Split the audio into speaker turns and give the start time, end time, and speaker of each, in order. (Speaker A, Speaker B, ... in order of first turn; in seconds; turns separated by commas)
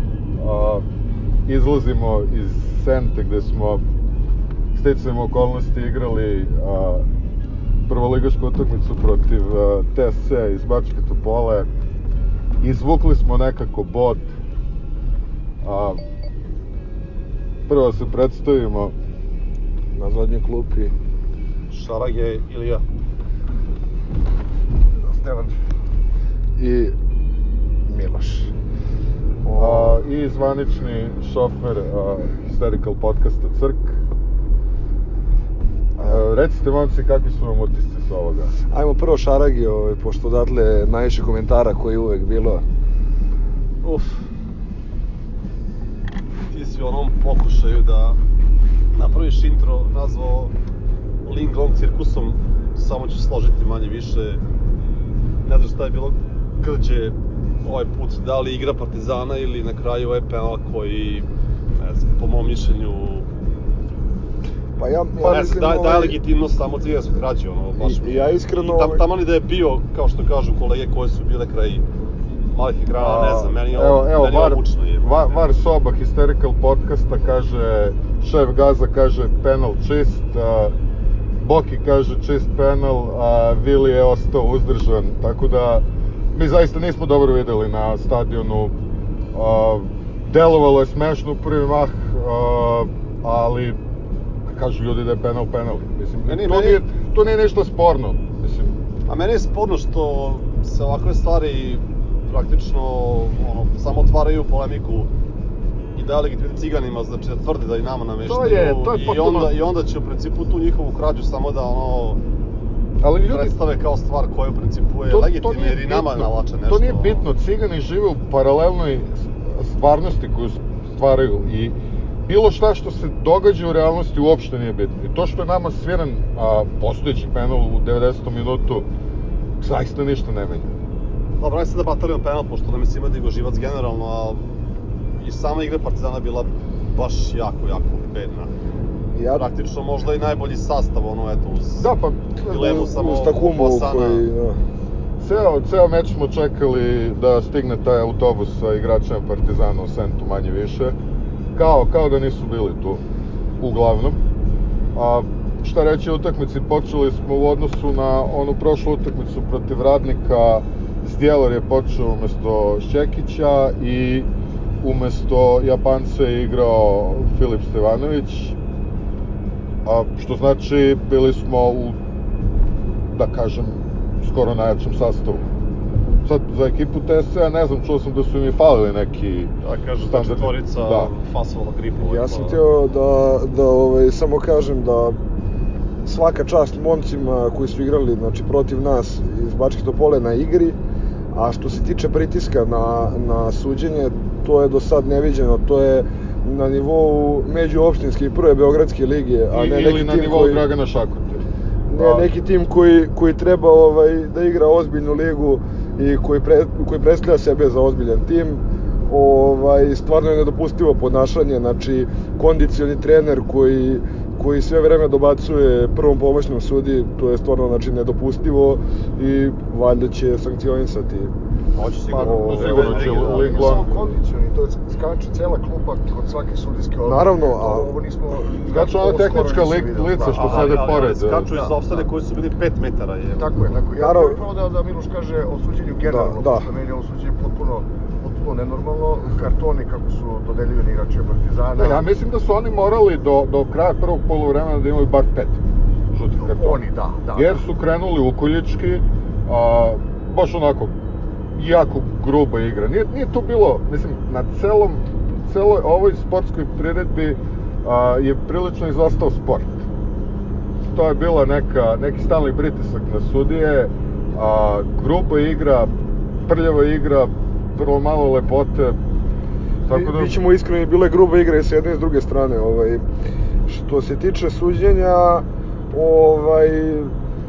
Speaker A: 0.4-0.8, Speaker A: 1.4-3.8, Speaker A: 4.7-7.0, Speaker A: 7.9-11.7, Speaker A: 12.6-14.3, Speaker A: 15.6-16.0, Speaker A: 17.7-18.9, Speaker B: 19.9-20.9, Speaker C: 21.7-22.8, Speaker B: 25.1-25.5, Speaker D: 25.2-25.5, Speaker B: 26.6-26.9, Speaker B: 27.9-28.5, Speaker B: 29.4-30.0, Speaker A: 29.5-34.0, Speaker B: 36.0-36.2, Speaker A: 36.0-38.5, Speaker B: 38.7-42.6, Speaker C: 43.8-44.2, Speaker C: 46.5-48.2, Speaker C: 48.9-50.5, Speaker C: 51.2-54.4, Speaker C: 55.4-63.3, Speaker B: 64.8-66.2, Speaker C: 65.2-71.8, Speaker B: 67.8-69.0, Speaker C: 72.5-75.1, Speaker A: 73.0-80.8, Speaker A: 81.3-88.8, Speaker A: 89.3-93.8, Speaker A: 94.5-98.8, Speaker C: 96.2-96.8, Speaker C: 99.1-105.1, Speaker C: 105.9-112.2, Speaker A: 108.2-109.5, Speaker A: 113.0-113.6, Speaker C: 113.2-117.2, Speaker A: 115.1-128.9, Speaker A: 129.6-130.8, Speaker C: 131.4-134.4, Speaker C: 135.2-138.5, Speaker B: 139.1-139.5, Speaker C: 139.3-141.9, Speaker A: 141.8-142.3, Speaker B: 142.4-144.6, Speaker C: 142.4-144.2, Speaker A: 145.2-151.0, Speaker A: 151.5-153.0, Speaker A: 153.6-154.2, Speaker A: 154.9-164.3, Speaker A: 164.8-168.6, Speaker A: 169.8-172.0, Speaker A: 173.1-175.5, Speaker A: 176.2-181.1, Speaker C: 179.6-182.6, Speaker B: 182.0-185.2, Speaker B: 186.0-190.8, Speaker B: 191.3-200.7, Speaker A: 199.5-202.3, Speaker B: 201.9-221.3, Speaker C: 221.7-223.8, Speaker D: 222.1-232.1, Speaker B: 222.1-222.8, Speaker A: 222.5-224.2, Speaker B: 227.0-227.9, Speaker A: 228.7-231.5, Speaker C: 230.3-233.5, Speaker D: 233.3-242.1, Speaker B: 233.9-234.4, Speaker B: 236.0-236.7, Speaker A: 241.8-250.9, Speaker D: 246.3-247.7, Speaker A: 251.5-259.9, Speaker A: 260.9-265.9, Speaker A: 266.4-269.0, Speaker A: 269.8-270.4, Speaker B: 269.9-273.0, Speaker B: 273.6-277.1